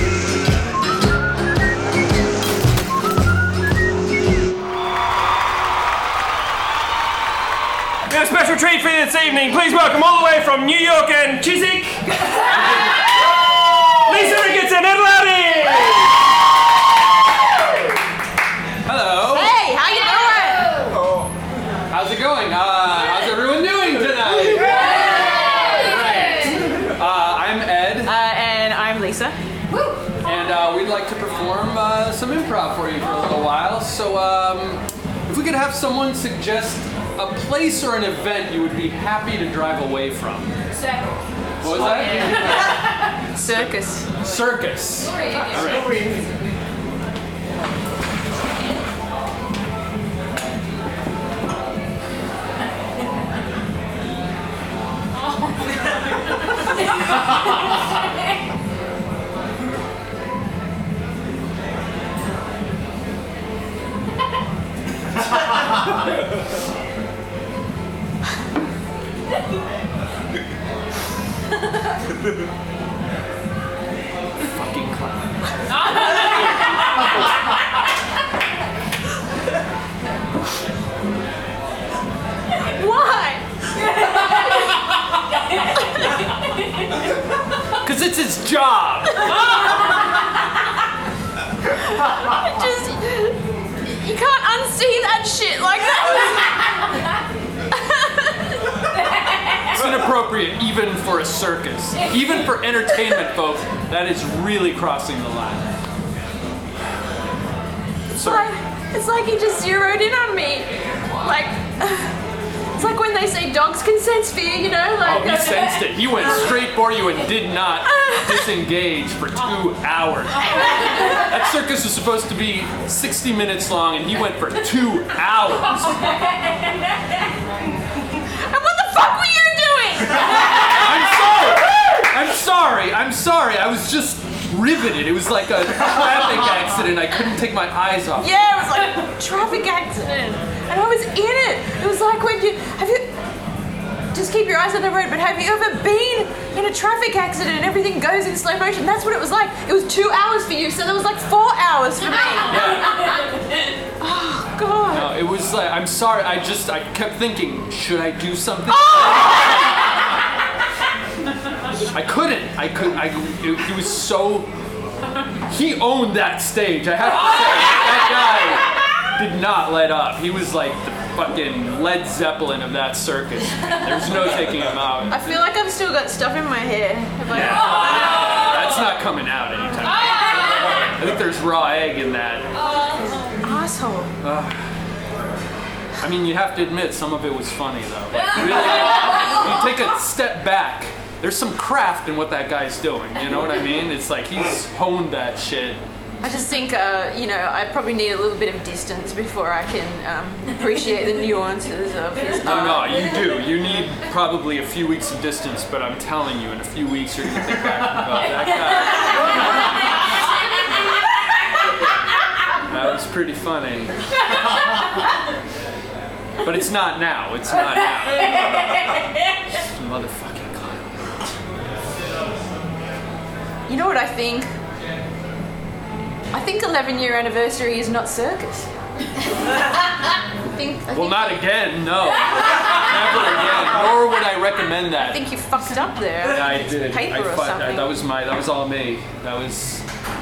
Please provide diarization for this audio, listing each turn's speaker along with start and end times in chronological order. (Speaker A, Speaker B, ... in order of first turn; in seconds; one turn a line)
Speaker A: 8.1-16.2
Speaker B: 18.9-19.6
Speaker C: 19.3-20.9
Speaker B: 21.9-28.1
Speaker C: 24.6-26.6
Speaker A: 24.8-25.3
Speaker C: 28.0-30.1
Speaker B: 30.2-40.5
Speaker C: 40.8-44.3
Speaker B: 41.6-46.1
Speaker C: 45.1-46.3
Speaker B: 74.5-75.5
Speaker C: 82.7-83.4
Speaker C: 85.7-86.1
Speaker B: 87.8-89.3
Speaker C: 91.9-96.9
Speaker C: 97.7-98.8
Speaker B: 99.7-105.7
Speaker B: 108.1-108.5
Speaker C: 108.2-112.2
Speaker C: 112.7-116.2
Speaker B: 115.0-126.1
Speaker C: 117.9-118.4
Speaker C: 128.2-130.7
Speaker B: 130.4-138.4
Speaker C: 138.2-143.1
Speaker C: 144.1-153.4
Speaker B: 152.5-152.9
Speaker C: 154.0-155.1
Speaker B: 154.9-159.4
Speaker C: 158.9-159.4
Speaker B: 161.9-164.5
Speaker B: 165.5-175.2
Speaker C: 175.1-178.3
Speaker B: 177.3-182.5
Speaker C: 183.0-184.1
Speaker B: 184.2-184.6
Speaker B: 186.0-195.8
Speaker C: 196.2-203.1
Speaker B: 202.4-209.6
Speaker B: 212.6-214.1
Speaker B: 216.4-218.7
Speaker B: 219.5-221.2
Speaker C: 223.7-224.5
Speaker C: 226.3-228.7
Speaker C: 230.4-231.4
Speaker B: 230.9-235.2
Speaker C: 235.0-238.0
Speaker B: 236.2-239.8